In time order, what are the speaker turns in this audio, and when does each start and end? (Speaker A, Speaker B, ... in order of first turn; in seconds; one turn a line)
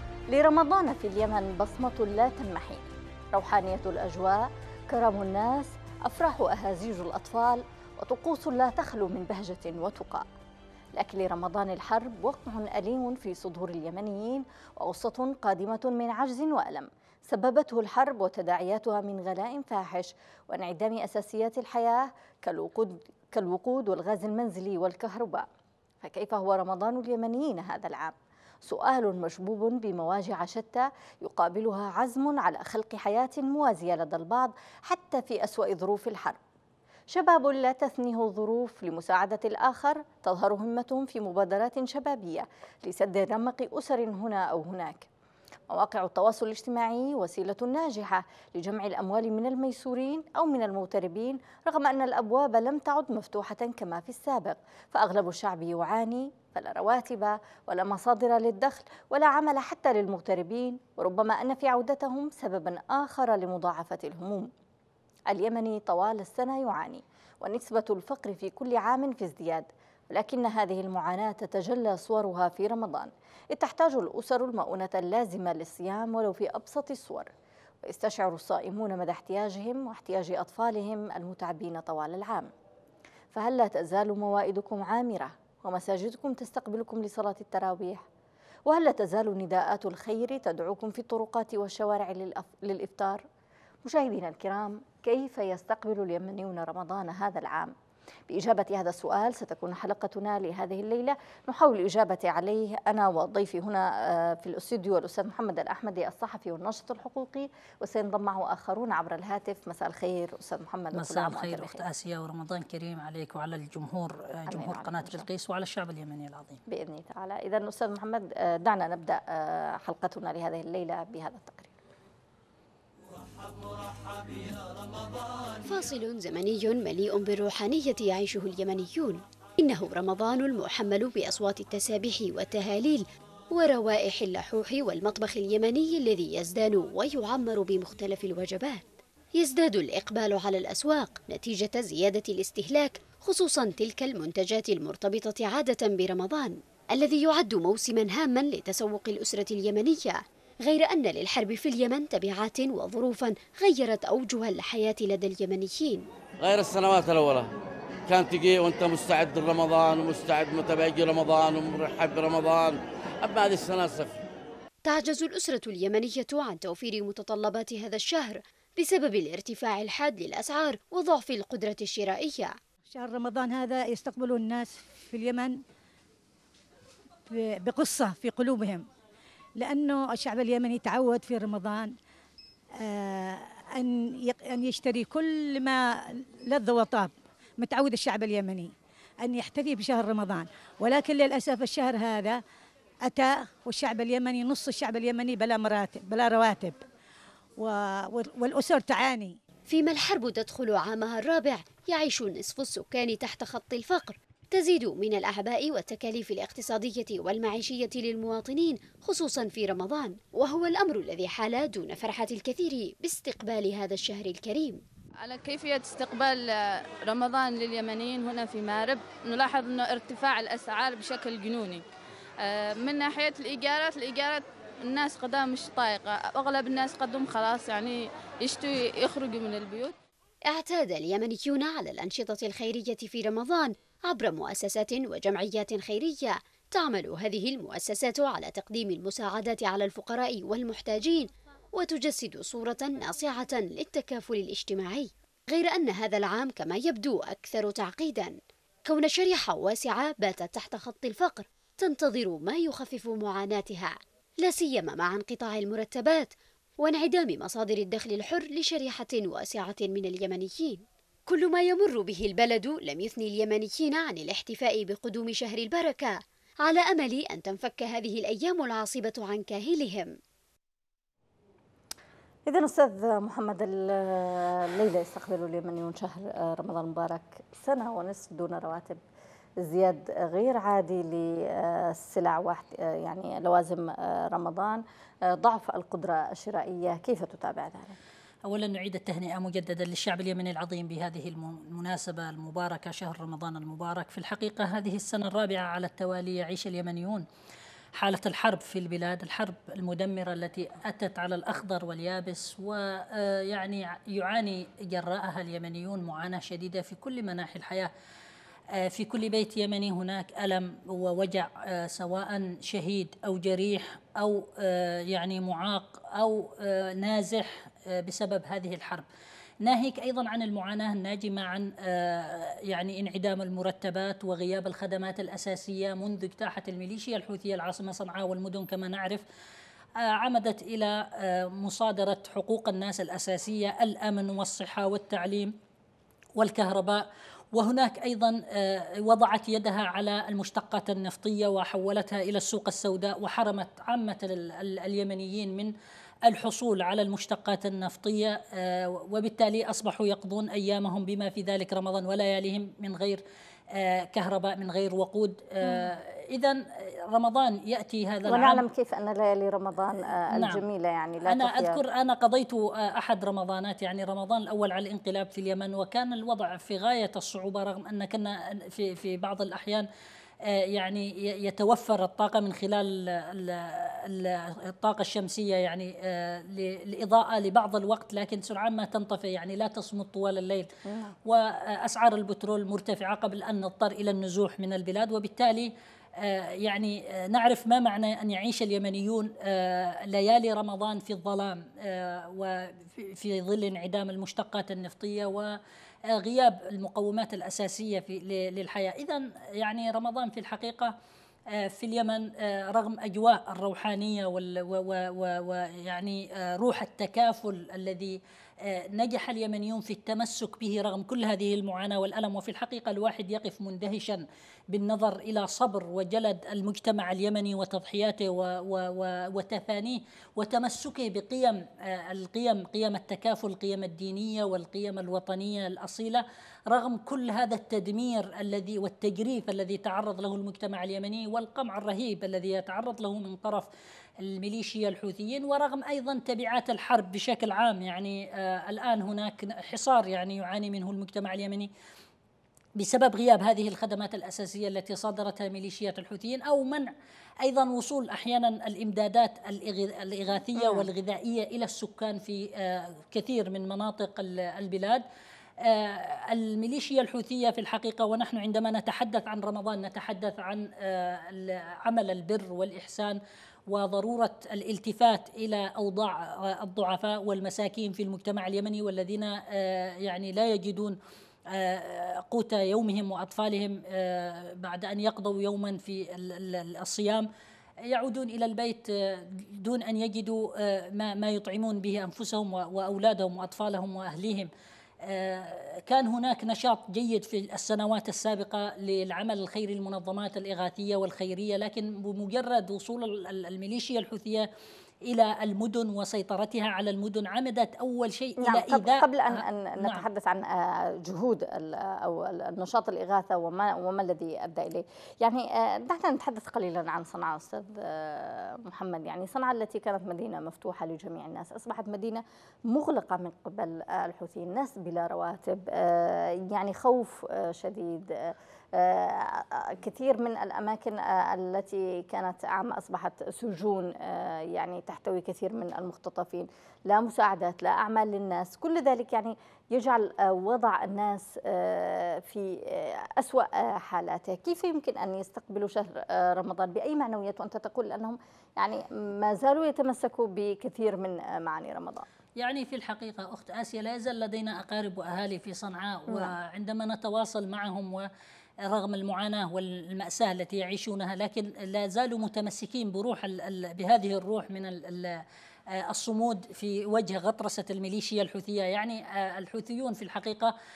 Speaker A: 0.3-10.3
Speaker A: 10.9-25.5
Speaker A: 26.0-36.4
Speaker A: 37.1-45.1
Speaker A: 45.7-64.5
Speaker A: 65.3-77.3
Speaker A: 77.8-82.5
Speaker A: 83.3-88.0
Speaker A: 88.7-93.2
Speaker A: 93.8-97.7
Speaker A: 98.3-111.8
Speaker B: 110.9-116.6
Speaker A: 114.5-115.3
Speaker A: 116.7-121.8
Speaker C: 125.6-156.1
Speaker D: 156.4-157.5
Speaker D: 158.1-164.2
Speaker C: 164.8-172.6
Speaker E: 172.9-175.6
Speaker E: 177.3-178.8
Speaker E: 179.6-181.9
Speaker E: 182.8-188.7
Speaker E: 189.2-192.4
Speaker E: 193.1-196.8
Speaker E: 197.6-199.4
Speaker C: 199.7-214.8
Speaker F: 215.2-221.8
Speaker F: 222.4-229.9
Speaker C: 230.5-270.1
Speaker A: 272.5-279.0
Speaker A: 279.6-288.0
Speaker B: 288.4-297.2
Speaker B: 298.0-307.9
Speaker B: 308.7-319.0
Speaker B: 319.6-329.2
Speaker B: 330.0-335.5
Speaker B: 336.4-345.7
Speaker B: 346.3-353.2
Speaker B: 353.7-356.6
Speaker B: 357.1-358.6
Speaker A: 358.3-361.8
Speaker B: 360.3-360.6
Speaker B: 361.2-369.9
Speaker B: 370.5-380.7
Speaker A: 380.9-381.1
Speaker B: 381.2-395.6
Speaker B: 396.1-400.9
Speaker B: 401.5-433.7
Speaker B: 434.2-441.7
Speaker B: 442.8-446.9
Speaker B: 447.4-455.0
Speaker A: 450.6-450.9
Speaker B: 455.6-471.0
Speaker B: 471.5-477.3
Speaker B: 477.8-484.5
Speaker B: 485.0-494.5
Speaker B: 495.1-500.0
Speaker A: 498.4-542.0
Speaker B: 542.4-548.1
Speaker B: 548.6-555.2
Speaker B: 555.8-560.5